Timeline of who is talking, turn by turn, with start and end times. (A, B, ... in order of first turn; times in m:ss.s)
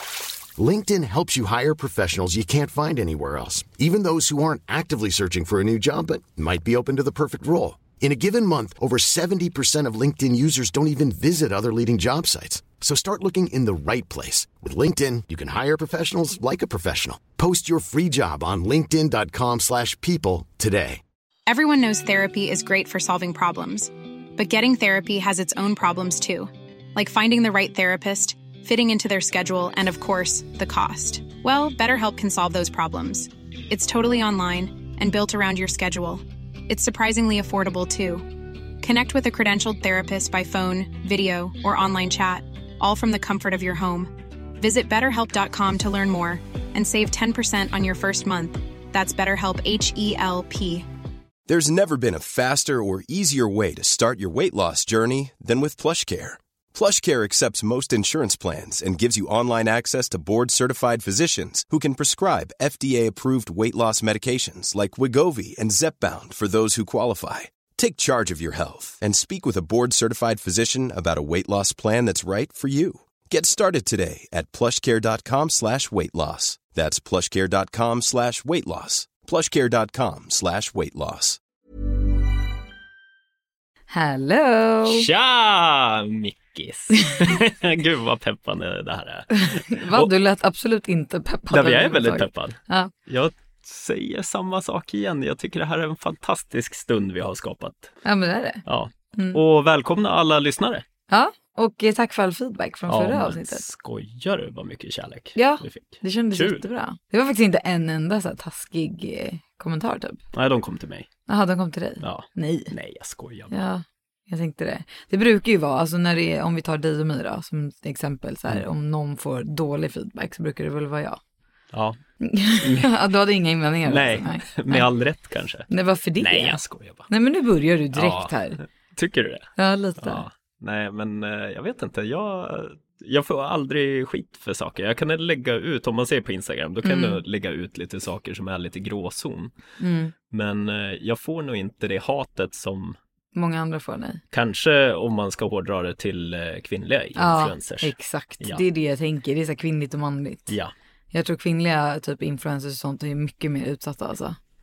0:00.6-0:21.0 A
0:21.5-0:38.3 B
0:38.8-0:50.9 B
0:51.5-1:21.4 C
1:23.9-1:25.1 D
1:24.9-1:30.1 E
1:29.3-1:32.9 D
1:31.5-1:37.9 E
1:38.0-1:38.6 D
1:38.7-1:40.8 E
1:41.1-1:43.6 D
1:42.9-1:46.6 E
1:45.4-1:50.2 D
1:50.3-1:51.1 E
1:51.3-1:52.7 D
1:52.0-1:53.5 E
1:53.5-2:01.2 D
2:01.7-2:02.0 E
2:02.2-2:04.8 D
2:02.6-2:02.9 E
2:03.8-2:07.1 E
2:05.7-2:08.6 D
2:07.9-2:09.5 E
2:09.6-2:10.2 D
2:10.0-2:19.5 E
2:16.8-2:17.2 D
2:19.8-2:20.1 D
2:20.3-2:23.0 E
2:23.4-2:24.2 D
2:24.3-2:28.6 E
2:27.2-2:30.5 D
2:31.1-2:34.4 D